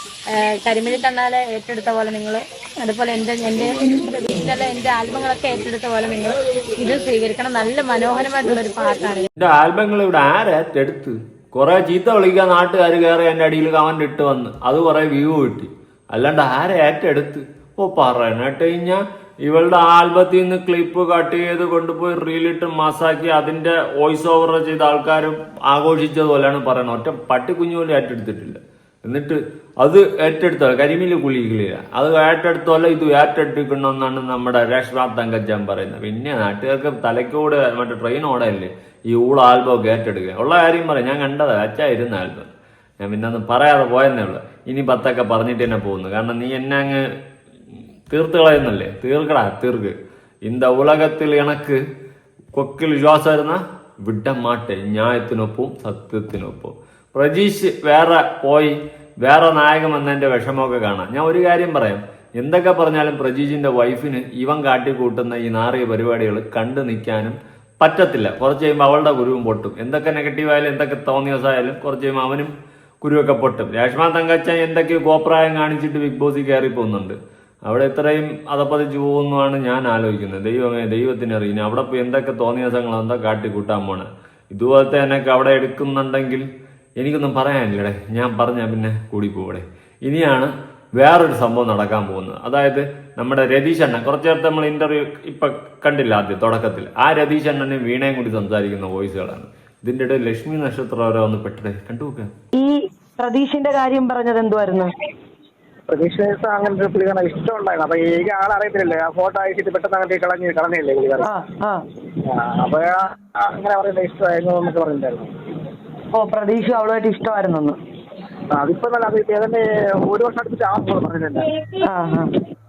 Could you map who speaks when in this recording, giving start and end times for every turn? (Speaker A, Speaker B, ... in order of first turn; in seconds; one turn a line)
Speaker A: 0.3-9.3
Speaker B: 9.4-47.0
Speaker B: 48.1-49.9
Speaker B: 50.5-51.8
Speaker B: 52.5-77.2
Speaker B: 77.7-86.4
Speaker B: 87.0-102.3
Speaker C: 102.6-104.9
Speaker D: 105.9-111.3
Speaker C: 111.3-111.8
Speaker D: 112.2-115.3
Speaker C: 116.1-117.8
Speaker D: 118.5-121.5
Speaker C: 121.9-122.3